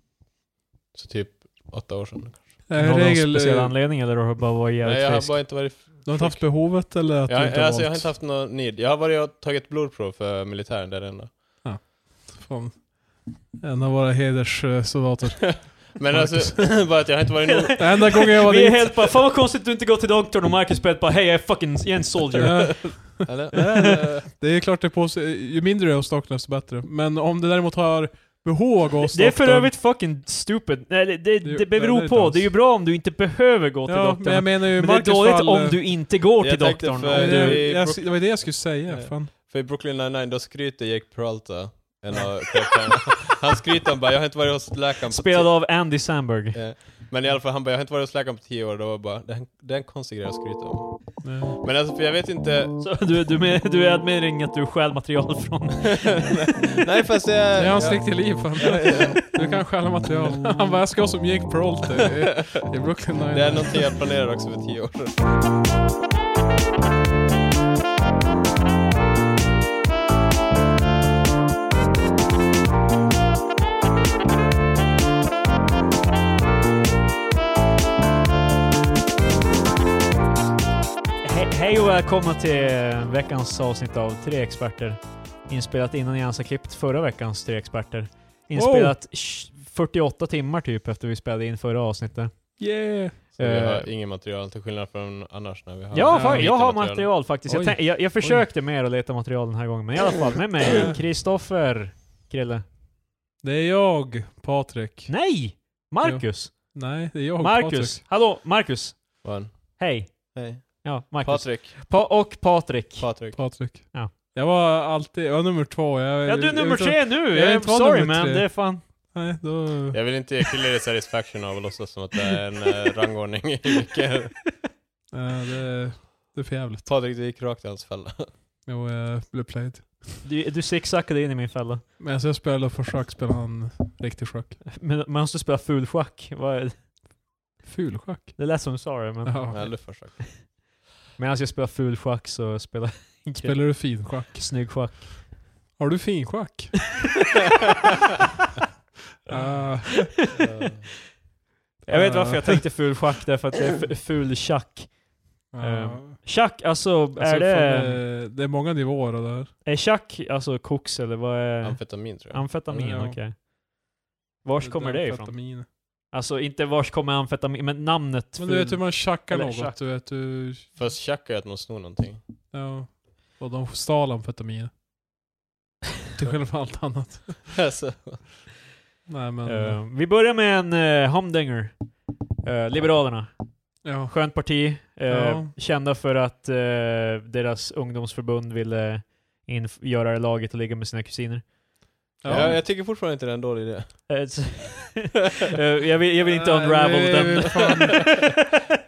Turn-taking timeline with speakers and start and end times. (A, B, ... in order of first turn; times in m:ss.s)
0:00.9-0:02.6 A
0:02.7-0:03.8 B
0:02.8-0:05.4 C
0:04.8-0:11.4 A
0:06.0-0:08.1 B
0:11.6-0:16.9 B
0:15.4-0:18.2 A
0:17.6-0:23.9 C
0:17.8-0:19.0 B
0:22.3-0:29.7 B
0:23.2-0:24.2 A
0:29.1-0:37.6 C
0:31.4-0:32.5 B
0:33.9-0:35.8 B
0:36.4-0:45.7 A
0:37.1-0:39.3 B
0:45.1-0:46.6 C
0:46.5-0:52.8 A
0:51.2-0:51.6 B
0:52.8-0:56.4 C
0:55.9-0:59.4 A
0:57.5-1:03.9 B
1:03.3-1:05.2 A
1:21.2-1:32.6 C
1:28.5-1:29.0 B
1:32.6-1:33.2 B
1:33.4-1:37.1 A
1:33.4-1:33.9 C
1:35.9-1:42.6 C
1:36.1-1:36.5 B
1:37.5-1:38.5 B
1:40.7-1:41.0 B
1:43.4-1:45.2 B
1:45.1-1:46.8 C
1:46.0-1:48.0 B
1:47.4-1:53.3 C
1:49.2-1:51.8 A
1:53.0-1:53.4 A
1:53.4-2:00.1 B
1:56.3-1:58.8 C
1:59.9-2:04.4 A
2:05.1-2:06.9 B
2:06.8-2:08.3 A
2:08.7-2:10.2 B
2:10.2-2:11.8 C
2:12.0-2:14.6 B
2:14.8-2:16.9 C
2:17.7-2:18.7 B
2:18.4-2:20.3 C
2:19.2-2:19.7 B
2:19.5-2:20.2 A
2:21.2-2:25.4 C
2:23.4-2:25.0 B
2:25.8-2:27.0 B
2:29.3-2:30.3 B
2:30.3-2:30.9 A
2:31.9-2:38.0 C
2:31.9-2:32.7 B
2:35.5-2:36.2 B
2:37.2-2:39.5 B
2:39.6-2:43.4 C
2:41.6-2:42.7 A
2:42.7-2:43.2 B
2:44.4-2:49.8 C
2:44.6-2:45.7 B
2:48.4-2:50.7 B
2:50.8-2:52.2 A
2:52.5-2:54.7 B
2:56.2-2:57.6 B
2:57.5-2:58.2 A
2:59.1-2:59.8 B
2:59.5-3:01.8 C
3:02.4-3:03.3 C
3:03.8-3:04.4 B
3:03.8-3:11.5 C
3:05.1-3:05.5 B
3:12.2-3:12.6 B
3:12.2-3:14.1 A
3:14.1-3:18.5 C
3:16.2-3:18.3 B